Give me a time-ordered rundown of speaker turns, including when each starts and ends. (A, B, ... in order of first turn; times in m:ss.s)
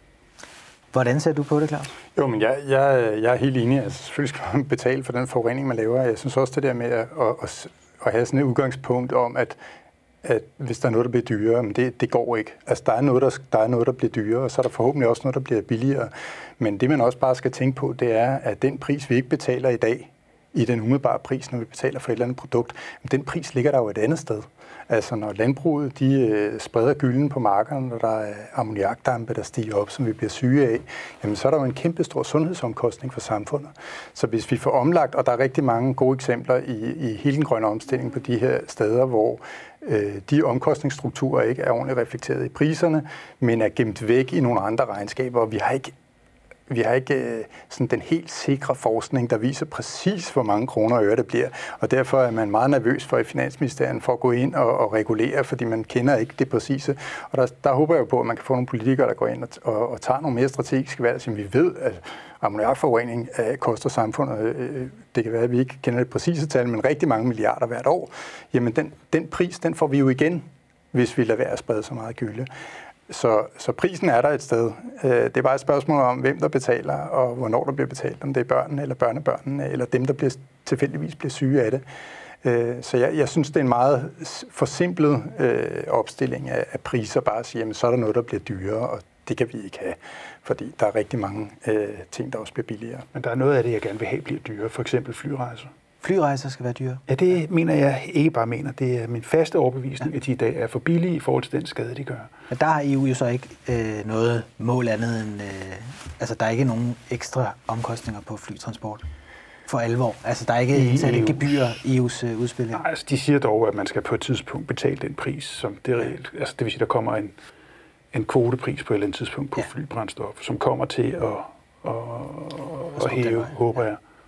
0:00.9-0:01.9 A
0:02.2-0:09.6 B
0:10.2-0:45.9 B
0:46.7-1:12.5 B
1:13.1-1:21.8 B
1:22.4-1:33.1 B
1:33.1-1:35.7 C
1:36.0-1:37.0 A
1:37.1-1:42.3 C
1:42.5-1:49.0 A
1:49.7-1:52.8 A
1:50.7-1:51.8 C
1:52.7-1:57.3 C
1:58.1-2:04.0 C
2:03.0-2:03.6 A